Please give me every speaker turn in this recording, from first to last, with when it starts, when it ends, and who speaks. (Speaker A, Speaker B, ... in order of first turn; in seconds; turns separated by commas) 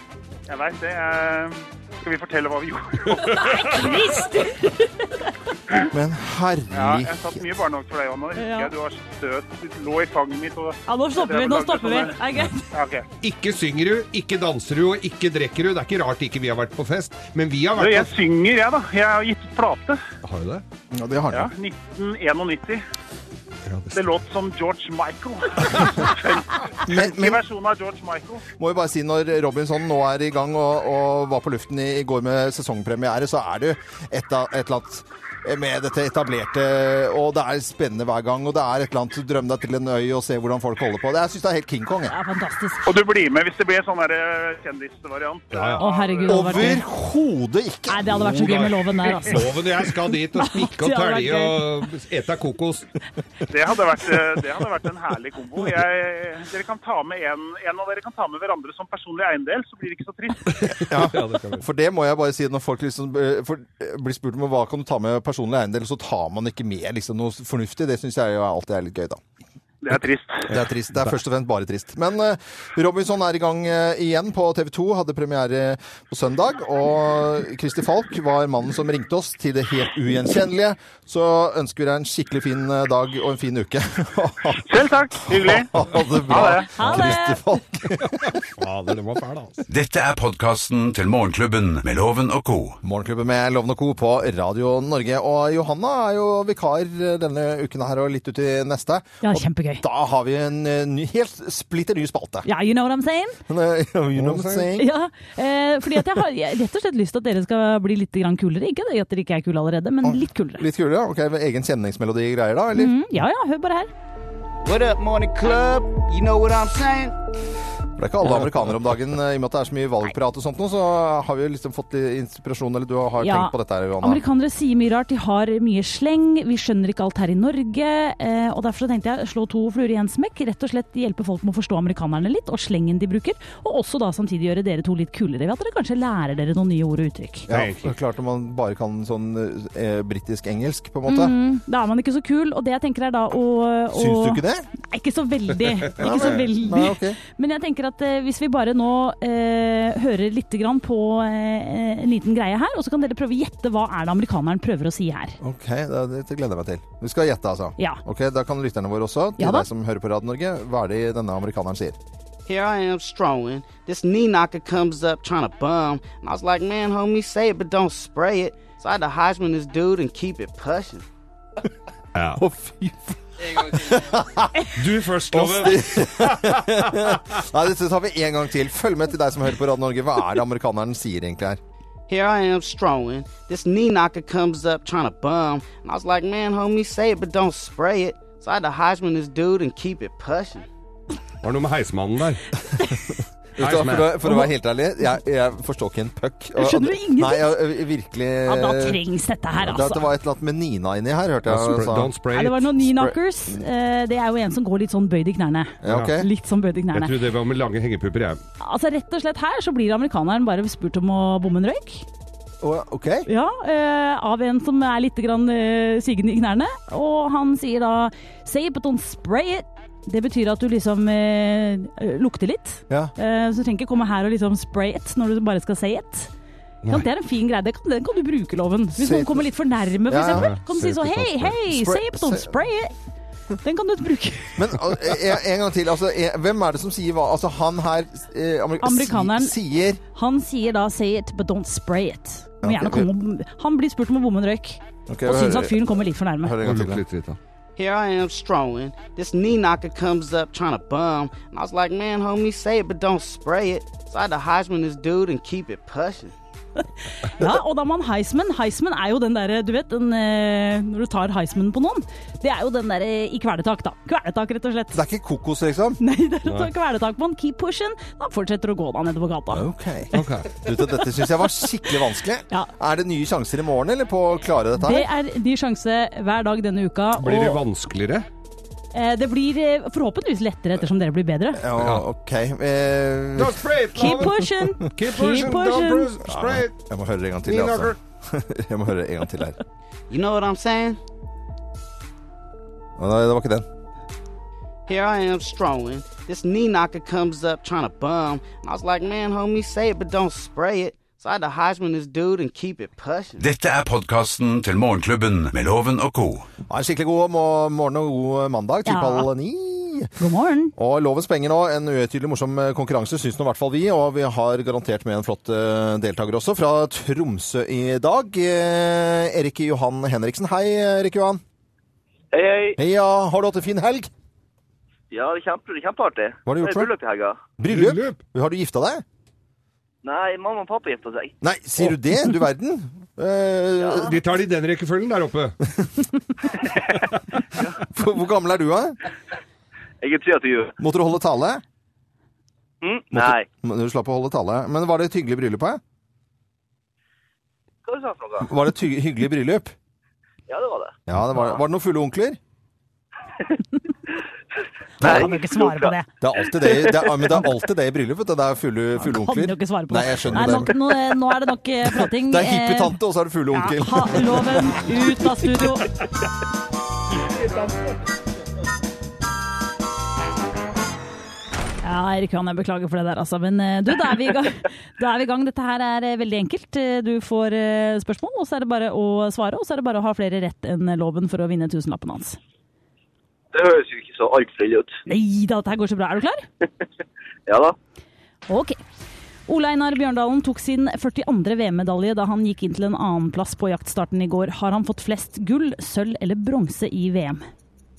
Speaker A: 0.5-3.4, Speaker B: 3.2-5.3, Speaker C: 5.9-7.4, Speaker A: 6.7-12.2, Speaker B: 8.3-8.7, Speaker B: 10.9-12.7, Speaker A: 12.7-13.1, Speaker D: 13.2-18.1, Speaker A: 17.8-20.0, Speaker D: 20.2-20.6, Speaker C: 20.9-21.5, Speaker A: 21.3-22.8, Speaker D: 23.6-24.0, Speaker A: 23.9-28.4, Speaker C: 26.9-27.4, Speaker C: 28.6-42.1, Speaker B: 42.1-42.9, Speaker A: 42.8-46.7, Speaker D: 45.5-45.8, Speaker B: 45.8-46.8, Speaker C: 46.3-48.6, Speaker B: 47.9-49.4, Speaker D: 48.2-52.9, Speaker B: 50.4-51.6, Speaker A: 53.5-60.5, Speaker D: 60.5-61.6, Speaker C: 60.9-69.2, Speaker A: 69.8-70.5, Speaker C: 70.5-88.4, Speaker A: 84.6-85.7, Speaker A: 86.2-86.7, Speaker B: 86.7-87.4, Speaker D: 88.1-89.6, Speaker E: 89.7-92.8, Speaker C: 92.8-102.5, Speaker B: 99.2-99.8, Speaker B: 102.4-103.4, Speaker C: 103.5-104.9, Speaker D: 104.2-104.7, Speaker B: 104.8-110.7, Speaker C: 110.0-113.0, Speaker B: 112.7-113.9, Speaker F: 114.6-117.1, Speaker C: 118.0-124.2, Speaker B: 123.2-137.5, Speaker C: 137.5-141.3, Speaker D: 137.5-137.9, Speaker B: 141.1-155.4, Speaker C: 143.9-144.7, Speaker C: 145.9-147.2, Speaker C: 155.4-161.9, Speaker B: 159.4-159.7, Speaker F: 162.5-171.0, Speaker D: 172.1-172.4, Speaker C: 172.3-174.8, Speaker D: 174.8-177.2, Speaker C: 175.3-181.6, Speaker F: 182.1-190.7, Speaker D: 191.4-192.4, Speaker C: 193.6-199.0, Speaker D: 193.6-194.2, Speaker B: 196.6-197.6, Speaker B: 198.4-200.1, Speaker C: 199.6-202.1, Speaker D: 201.4-202.7, Speaker B: 202.3-207.2, Speaker C: 202.8-203.6, Speaker C: 205.8-206.3, Speaker D: 206.9-208.4, Speaker B: 208.6-212.1, Speaker C: 212.6-213.3, Speaker B: 213.3-226.3, Speaker B: 226.9-232.9, Speaker C: 229.0-229.5, Speaker C: 230.1-230.5, Speaker D: 230.3-231.5, Speaker C: 231.7-232.6, Speaker B: 233.6-234.9, Speaker C: 234.6-240.0, Speaker B: 238.8-239.5, Speaker B: 240.1-246.5, Speaker C: 242.6-243.1, Speaker C: 245.1-247.0, Speaker D: 246.6-247.4, Speaker F: 247.8-256.3, Speaker B: 257.2-265.0, Speaker C: 264.9-266.0, Speaker B: 266.0-269.7, Speaker D: 266.4-266.7, Speaker C: 269.5-275.1, Speaker D: 270.1-270.5, Speaker B: 274.8-277.6, Speaker D: 277.2-278.3, Speaker B: 278.9-281.6, Speaker C: 281.5-284.3, Speaker D: 281.8-282.0, Speaker D: 283.4-286.7, Speaker B: 283.9-286.1, Speaker C: 286.2-289.6, Speaker D: 287.4-288.0, Speaker F: 290.1-291.0, Speaker C: 293.0-293.6, Speaker F: 294.9-303.4, Speaker E: 303.4-306.5, Speaker C: 306.7-310.1, Speaker B: 308.9-309.3, Speaker B: 310.2-310.7, Speaker C: 310.8-321.4, Speaker G: 322.3-322.8, Speaker C: 322.8-324.1, Speaker G: 325.1-327.4, Speaker C: 326.4-326.9, Speaker C: 327.6-329.0, Speaker D: 327.7-328.2, Speaker G: 330.0-331.3, Speaker C: 331.4-334.2, Speaker G: 333.8-334.1, Speaker D: 334.0-335.6, Speaker C: 337.8-339.0, Speaker G: 340.0-340.8, Speaker C: 340.8-341.6, Speaker G: 342.8-343.4, Speaker C: 343.1-345.8, Speaker G: 347.8-348.5, Speaker C: 348.4-349.7, Speaker G: 350.5-351.6, Speaker C: 351.1-352.4, Speaker B: 355.0-356.1, Speaker C: 355.0-355.3, Speaker G: 355.0-355.9, Speaker C: 356.2-360.8, Speaker G: 356.5-357.4, Speaker B: 359.0-363.0, Speaker C: 362.0-364.9, Speaker B: 363.5-365.9, Speaker B: 371.8-382.4, Speaker G: 383.5-384.9, Speaker B: 385.1-386.4, Speaker G: 387.5-387.7, Speaker B: 388.5-388.8, Speaker B: 389.5-397.4